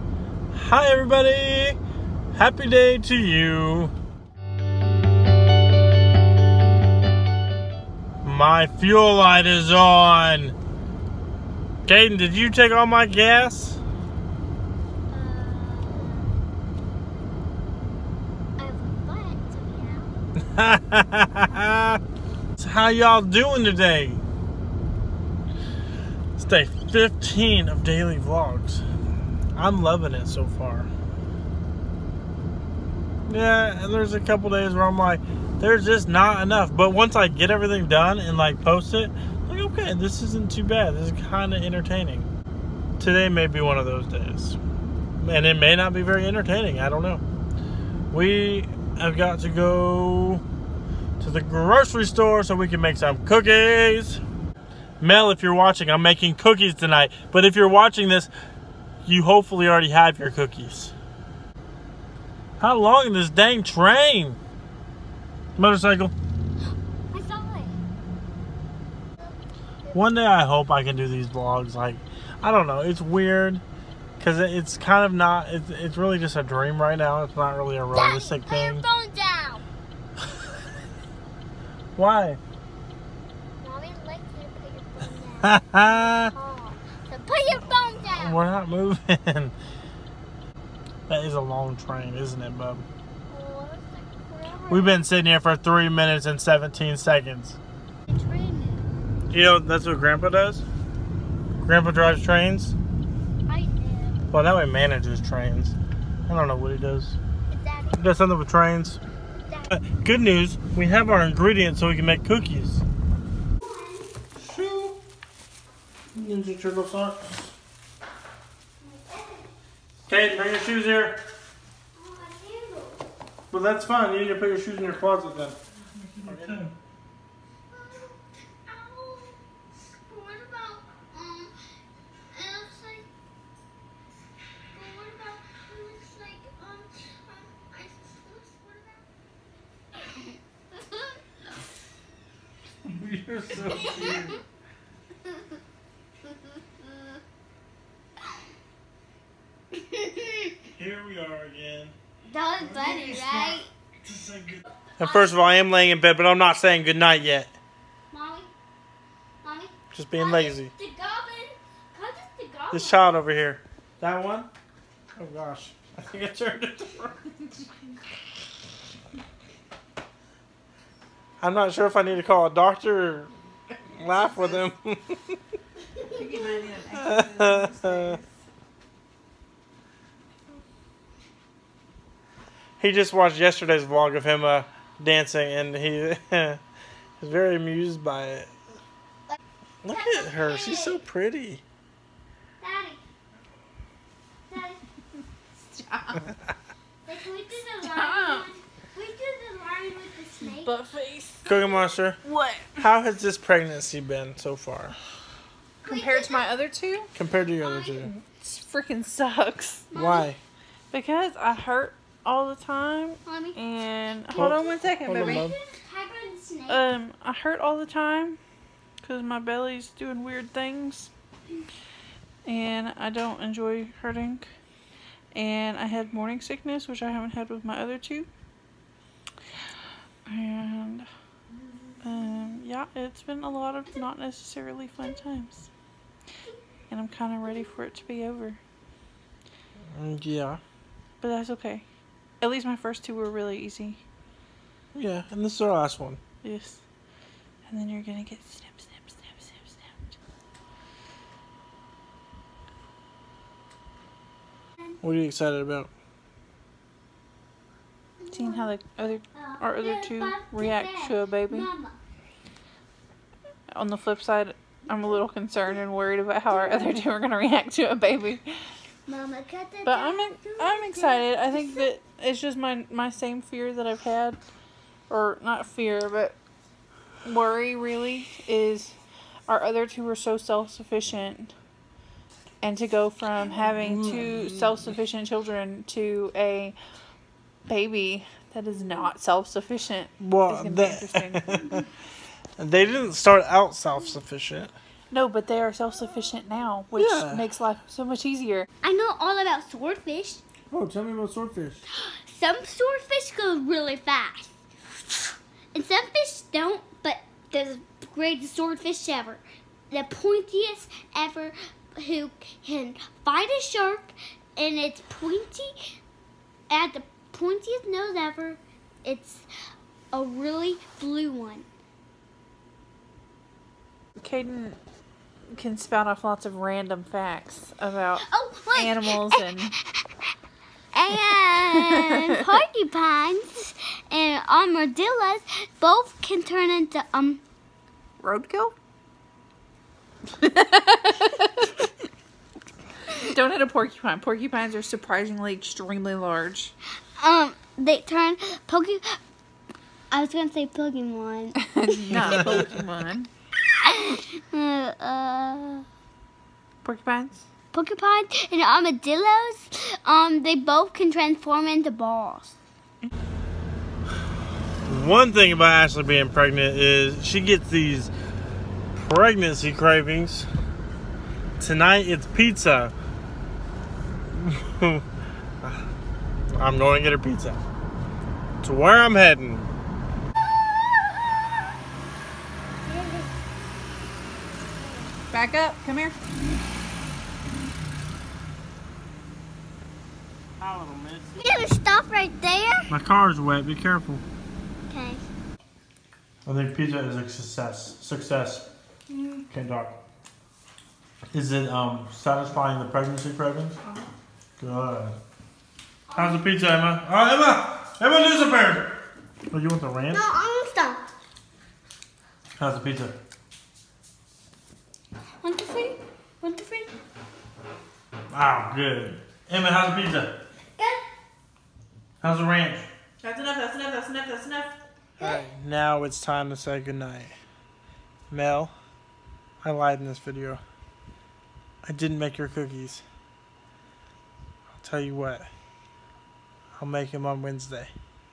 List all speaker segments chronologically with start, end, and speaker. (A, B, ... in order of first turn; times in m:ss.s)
0:00.5-0:01.8 A
0:02.3-0:03.9 A
0:08.2-0:10.5 A
0:11.9-0:13.8 A
0:15.1-0:16.4 B
0:18.6-0:20.2 B
0:20.5-0:22.0 A
0:22.6-0:24.2 A
0:26.4-0:28.8 A
0:29.5-0:30.9 A
0:33.3-0:42.3 A
0:43.0-0:44.6 A
0:45.2-0:47.2 A
0:48.1-0:50.4 A
0:51.2-0:54.2 A
0:55.0-0:58.3 A
0:59.0-1:00.9 A
1:02.6-1:04.4 A
1:05.6-1:06.1 A
1:07.1-1:07.7 B
1:09.2-1:10.1 B
1:09.9-1:13.6 A
1:14.2-1:18.8 A
1:17.9-1:19.6 B
1:22.0-1:22.4 A
1:23.6-1:28.4 B
1:25.4-1:26.3 A
1:28.1-1:29.6 A
1:31.1-1:32.9 A
1:33.3-1:35.0 B
1:34.7-1:37.6 A
1:38.1-1:38.9 B
1:39.3-1:40.6 A
1:41.6-1:42.8 A
1:43.5-1:44.3 B
1:44.3-1:45.8 A
1:46.3-1:47.2 A
1:47.5-1:48.0 B
1:48.0-1:49.0 A
1:49.4-1:49.7 B
1:49.7-1:52.8 A
1:53.6-1:54.1 B
1:54.4-1:55.0 A
1:56.1-1:57.5 A
1:58.8-1:59.5 B
2:00.1-2:01.2 A
2:01.9-2:03.0 B
2:03.5-2:05.6 A
2:06.2-2:06.7 A
2:07.7-2:11.5 B
2:12.3-2:13.1 B
2:14.7-2:19.0 B
2:20.0-2:21.2 B
2:22.8-2:24.4 A
2:23.7-2:24.3 B
2:26.8-2:27.2 B
2:29.7-2:30.6 B
2:30.8-2:32.0 A
2:32.3-2:33.7 B
2:32.6-2:37.6 A
2:35.0-2:35.6 B
2:38.1-2:38.5 B
2:39.4-2:43.1 B
2:39.9-2:40.7 A
2:42.7-2:44.5 A
2:45.2-2:47.3 A
2:51.4-2:53.3 A
2:53.9-2:55.4 A
2:56.1-2:58.3 C
2:57.0-2:58.2 A
3:02.8-3:06.6 A
3:07.2-3:08.5 A
3:09.8-3:11.6 A
3:09.9-3:11.0 B
3:12.6-3:13.0 B
3:14.5-3:14.8 B
3:15.7-3:16.3 C
3:17.1-3:20.8 B
3:17.8-3:18.5 C
3:20.4-3:21.4 C
3:21.4-3:22.2 A
3:22.2-3:22.9 C
3:22.8-3:25.0 A
3:25.8-3:27.1 C
3:25.8-3:26.5 B
3:27.2-3:28.1 A
3:27.6-3:28.0 B
3:28.1-3:29.9 C
3:29.9-3:30.3 B
3:29.9-3:30.4 A
3:30.9-3:35.5 C
3:33.3-3:33.6 B
3:34.3-3:36.9 B
3:34.3-3:35.6 A
3:36.7-3:38.4 C
3:39.0-3:41.1 C
3:42.4-3:44.5 C
3:45.3-3:48.3 C
3:50.3-3:51.1 C
3:52.0-3:55.7 C
3:56.9-3:58.6 C
3:59.9-4:00.6 A
4:01.2-4:01.8 C
4:02.4-4:04.0 C
4:04.9-4:06.2 A
4:06.4-4:06.8 C
4:07.7-4:10.1 C
4:15.0-4:15.9 A
4:18.2-4:18.7 B
4:18.3-4:21.7 C
4:19.3-4:22.0 B
4:23.7-4:28.6 C
4:26.5-4:26.9 B
4:29.1-4:31.9 B
4:29.8-4:34.4 C
4:35.1-4:36.4 C
4:37.2-4:39.0 C
4:39.5-4:41.5 C
4:42.6-4:46.8 C
4:47.7-4:51.6 C
4:50.2-4:51.8 A
4:52.6-4:54.7 A
4:55.1-4:58.7 C
4:56.9-4:57.4 A
4:58.8-5:00.4 B
5:00.7-5:01.8 A
5:01.9-5:04.5 B
5:05.7-5:15.7 B
5:16.7-5:19.5 B
5:20.1-5:21.7 B
5:24.2-5:24.8 C
5:25.5-5:29.7 C
5:28.2-5:29.2 B
5:29.8-5:30.1 B
5:30.9-5:37.4 B
5:31.6-5:32.1 C
5:38.2-5:38.7 C
5:40.4-5:41.7 C
5:43.2-5:46.7 C
5:47.2-5:49.2 B
5:50.1-5:52.4 B
5:51.7-5:53.3 C
5:53.8-5:55.9 B
5:56.8-5:57.4 C
5:57.7-6:02.6 B
6:04.9-6:08.1 A
6:08.9-6:10.5 A
6:11.6-6:12.9 A
6:14.3-6:15.0 A
6:16.5-6:17.6 A
6:18.6-6:19.7 A
6:22.8-6:23.3 B
6:25.3-6:26.2 C
6:30.6-6:31.3 A
6:31.4-6:32.9 B
6:32.9-6:34.2 A
6:34.9-6:35.2 B
6:36.4-6:38.7 A
6:39.1-6:39.4 C
6:39.5-6:40.0 A
6:41.3-6:43.8 A
6:43.8-6:44.1 C
6:44.6-6:45.2 A
6:46.1-6:46.4 B
6:46.1-6:48.9 A
6:49.5-6:50.2 A
6:50.1-6:51.0 B
6:52.6-6:53.2 A
6:55.4-6:56.9 B
6:58.3-7:00.3 A
7:00.8-7:01.0 B
7:02.2-7:02.9 A
7:03.2-7:04.8 C
7:05.2-7:07.4 A
7:08.3-7:08.7 A
7:09.6-7:10.6 A
7:11.8-7:13.0 A
7:14.8-7:15.5 A
7:16.8-7:17.9 A